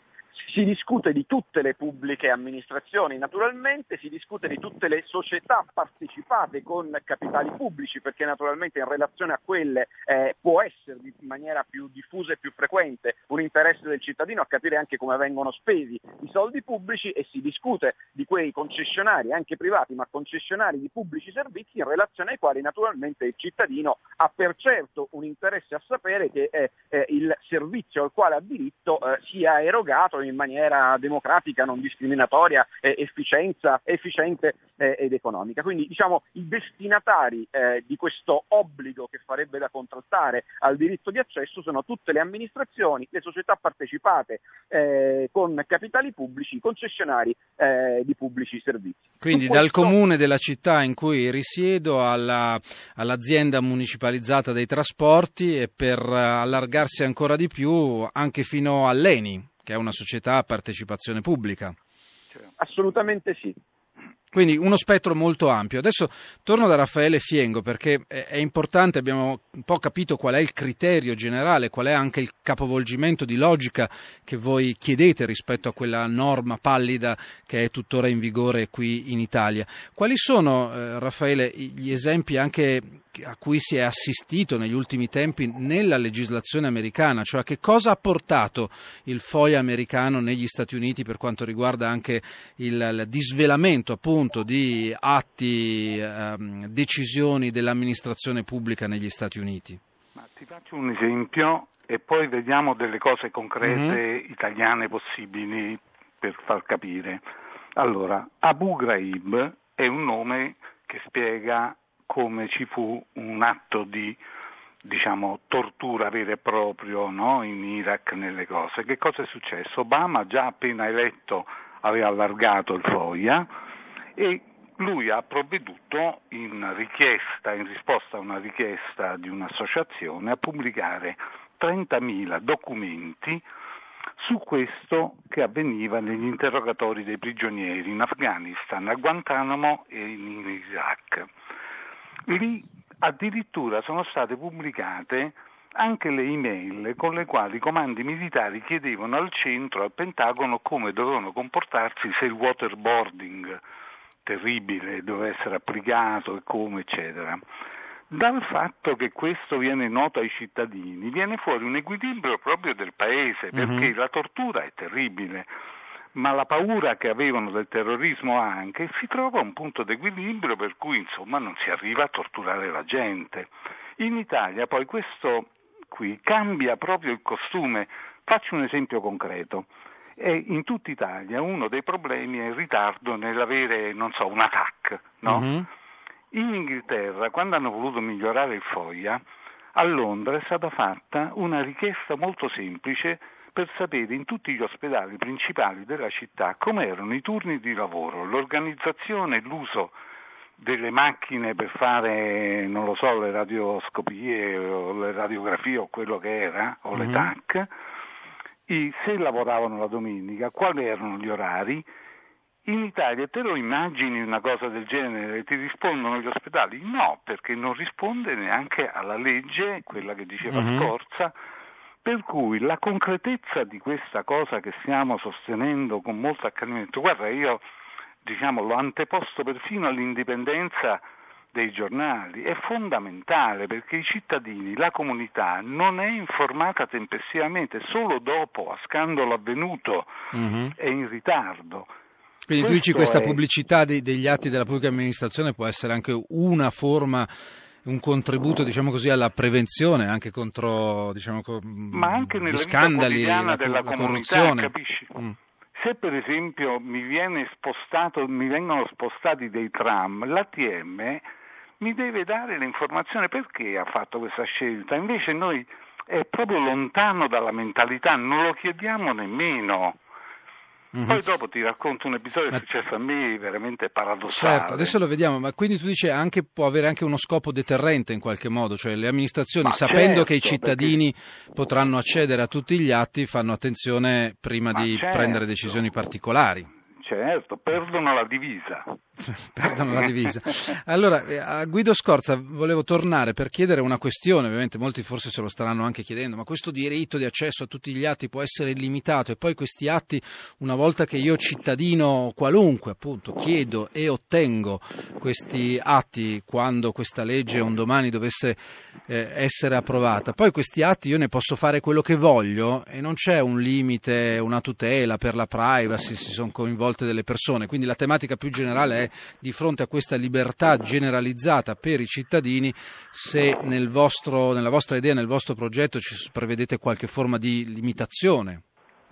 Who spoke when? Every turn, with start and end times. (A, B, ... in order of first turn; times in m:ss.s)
0:00.4-0:50.0 A
0:49.2-1:01.8 B
1:02.6-1:03.6 A
1:04.3-1:39.8 B
1:40.2-1:47.2 C
1:43.6-1:44.0 B
1:47.8-1:54.2 C
1:54.8-2:03.5 C
2:04.2-2:13.4 C
2:14.2-2:21.3 C
2:22.3-2:33.6 C
2:34.2-2:37.4 C
2:38.1-2:45.5 C
2:43.5-2:43.9 B
2:46.2-3:05.5 C
3:05.3-3:05.7 B
3:06.3-3:09.2 C
3:09.8-3:20.0 C
3:20.6-3:27.7 C
3:27.0-3:27.3 B
3:28.7-3:31.8 C
3:32.6-3:41.3 C
3:40.5-3:40.9 B
3:42.0-3:47.6 C
3:48.2-4:00.1 C
4:00.3-4:00.8 B
4:00.8-4:01.9 C
4:02.5-4:07.3 B
4:02.6-4:03.4 C
4:07.8-4:15.4 B
4:11.9-4:15.2 C
4:15.8-4:21.2 C
4:21.8-4:30.0 C
4:30.9-4:31.2 B
4:31.1-4:35.0 C
4:34.3-4:46.7 B
4:39.6-4:41.0 C
4:44.7-4:45.8 C
4:47.0-4:49.0 C
4:49.2-5:28.6 B
4:49.7-4:50.1 C